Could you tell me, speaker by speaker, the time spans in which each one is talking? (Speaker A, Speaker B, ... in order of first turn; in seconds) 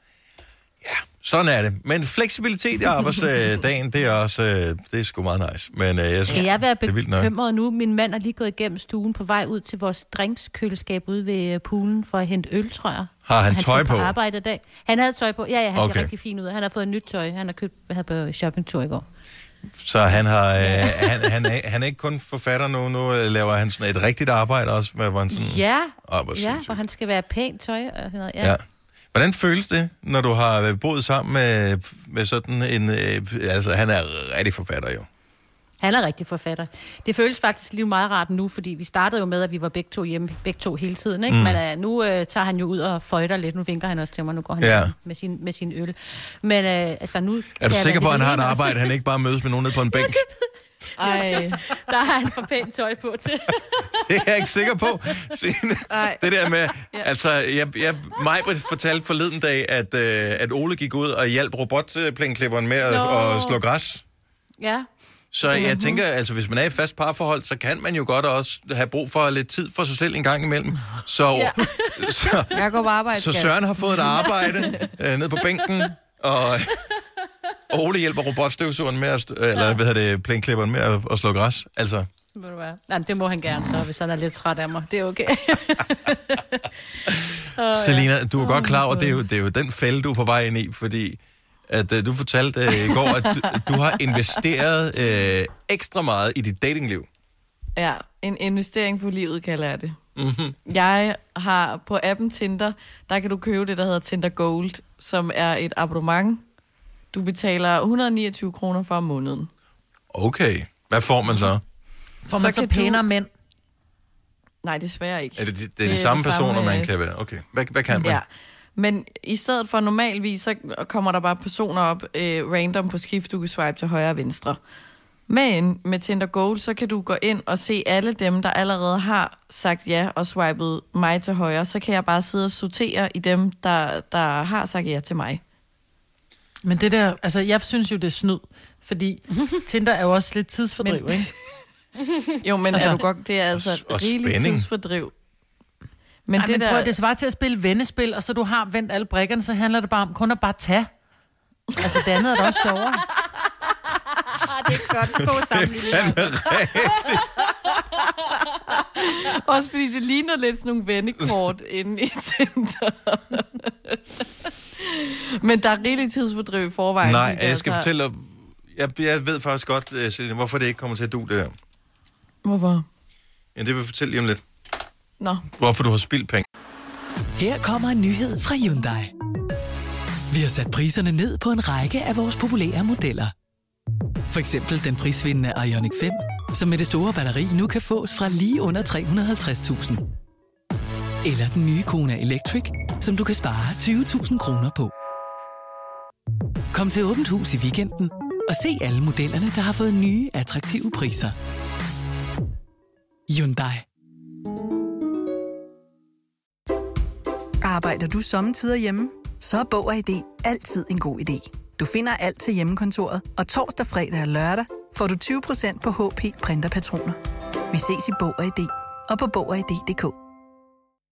Speaker A: 0.8-7.3, 13.2-14.1, 15.8-16.1, 19.8-26.8, 28.4-35.1, 41.3-41.6, 44.6-44.9, 47.6-50.2, 54.1-64.0, 65.3-72.6, 73.1-76.8, 77.7-82.1, 87.7-97.1, 100.2-100.5, 110.1-111.6, 115.4-118.2, 143.5-144.7, 154.7-157.2, 167.0-171.5, 173.5-174.4, 175.6-176.4
Speaker B: 6.3-19.0, 20.6-21.3, 25.3-28.6, 35.8-48.9, 49.9-50.2, 51.0-54.0, 54.8-55.1, 62.9-63.6, 64.6-64.9, 71.3-72.1, 82.3-86.7, 87.6-88.8, 154.3-157.2
Speaker C: 51.0-51.6, 55.9-57.1, 65.5-66.0, 72.5-74.9, 88.5-89.1, 97.8-100.0, 100.7-106.4, 107.1-109.5, 112.3-113.0, 114.6-116.9, 117.9-124.6, 125.3-135.4, 140.8-141.3, 142.4-145.1, 146.2-146.9, 158.8-164.2, 164.8-167.9, 172.4-172.8, 175.2-175.4
Speaker D: 112.3-113.3, 136.6-141.3, 142.7-143.0, 146.3-150.9, 151.8-153.0
Speaker E: 177.4-179.1, 180.3-183.3, 184.3-190.0, 191.2-194.9, 196.7-201.3, 203.3-203.8
Speaker F: 207.6-217.2, 217.7-220.1